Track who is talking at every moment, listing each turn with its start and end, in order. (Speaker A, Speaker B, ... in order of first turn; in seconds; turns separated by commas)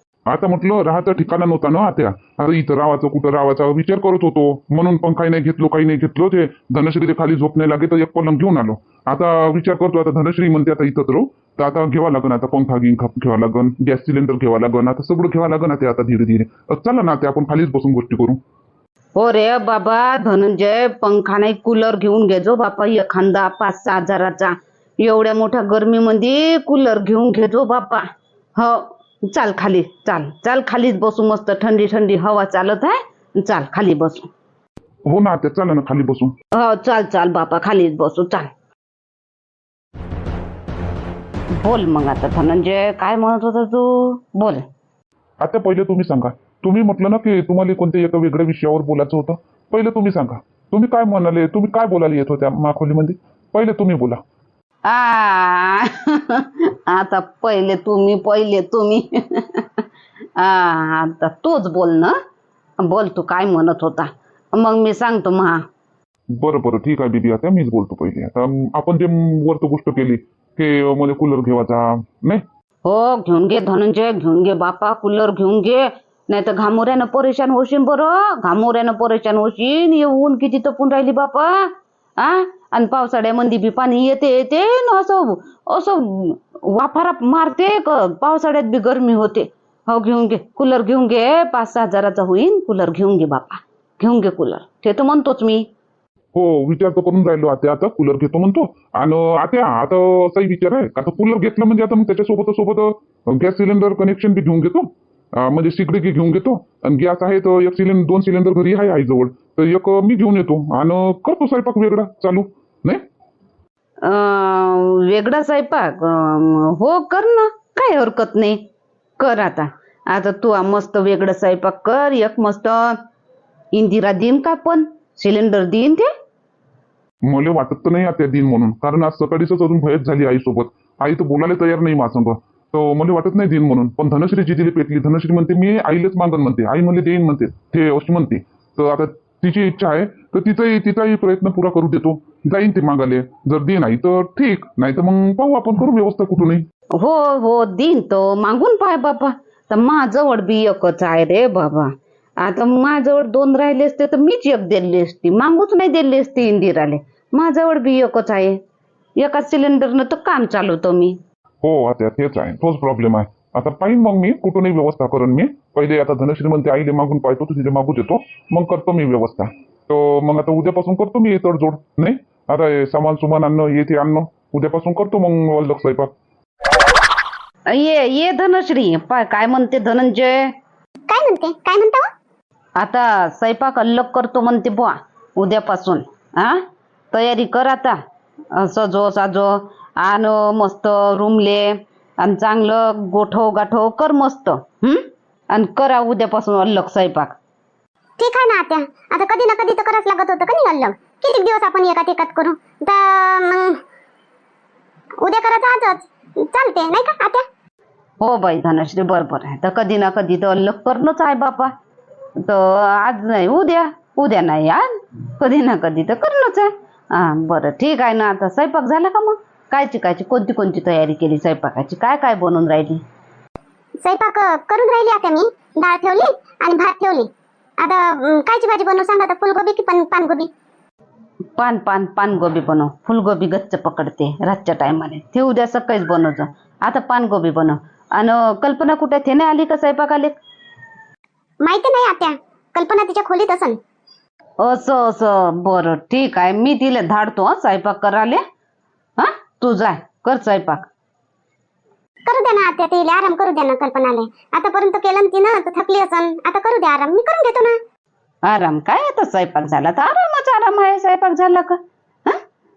Speaker A: 0.3-18.4, Speaker B: 19.1-28.0, Speaker B: 28.6-34.3, Speaker A: 35.1-36.3, Speaker B: 36.5-38.5, Speaker B: 41.6-44.6, Speaker A: 45.4-54.2, Speaker B: 54.9-59.8, Speaker B: 60.4-62.2, Speaker B: 62.8-65.6, Speaker A: 66.4-72.4, Speaker B: 72.8-95.6, Speaker A: 96.3-113.0, Speaker B: 114.0-118.6, Speaker B: 119.2-123.0, Speaker B: 123.7-126.1, Speaker A: 127.3-146.6, Speaker B: 147.0-158.6, Speaker B: 159.2-161.2, Speaker A: 161.6-176.1, Speaker B: 177.7-180.5, Speaker C: 181.1-182.1, Speaker B: 182.8-186.6, Speaker B: 187.1-188.0, Speaker B: 188.5-197.3, Speaker C: 198.2-203.8, Speaker C: 205.2-207.4, Speaker B: 208.2-211.7, Speaker B: 212.4-214.9, Speaker B: 215.4-223.0, Speaker C: 224.0-227.3, Speaker C: 227.8-230.5, Speaker B: 231.6-240.4, Speaker C: 241.6-243.8, Speaker B: 244.6-248.4, Speaker B: 249.2-250.9, Speaker C: 252.2-257.8, Speaker B: 258.5-262.4